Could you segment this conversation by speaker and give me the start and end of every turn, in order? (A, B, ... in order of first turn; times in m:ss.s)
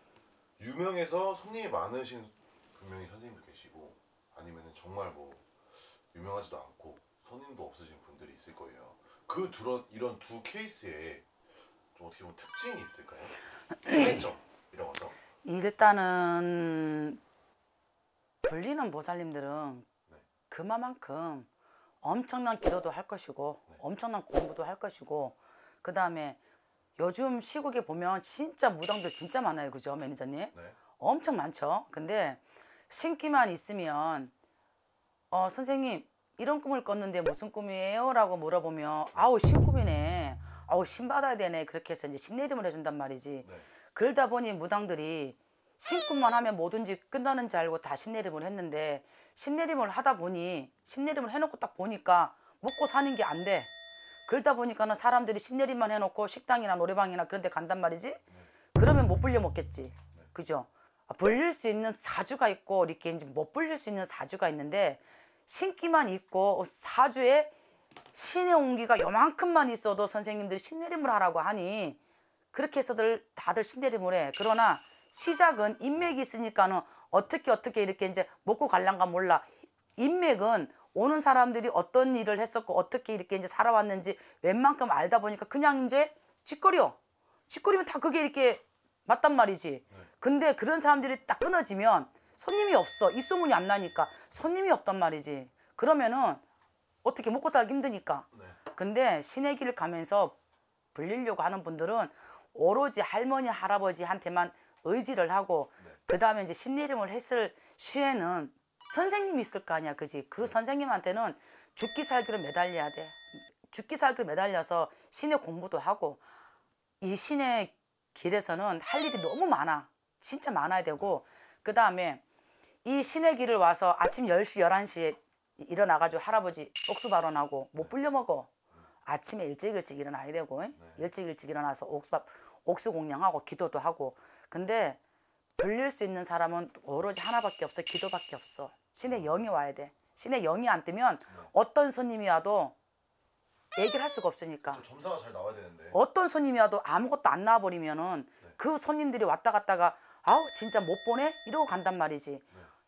0:00.6-0:11.3 A
0:11.9-0:15.2 A
0:15.4-0:17.2 B
0:18.4-0:19.9 B
0:20.5-0:21.5 B
0:22.0-0:26.4 B
0:27.0-0:34.3 B
0:35.3-0:53.7 B
0:54.3-1:07.5 B
1:08.1-1:12.0 B
1:12.5-1:27.0 B
1:27.5-1:36.4 B
1:37.0-1:40.4 B
1:38.3-1:38.6 A
1:40.9-1:56.2 B
1:57.0-2:02.2 B
2:02.8-2:08.5 B
2:09.0-2:15.0 B
2:10.8-2:11.0 A
2:15.6-2:22.8 B
2:19.1-2:19.4 A
2:23.8-2:24.8 B
2:24.7-2:26.0 A
2:25.9-2:32.4 B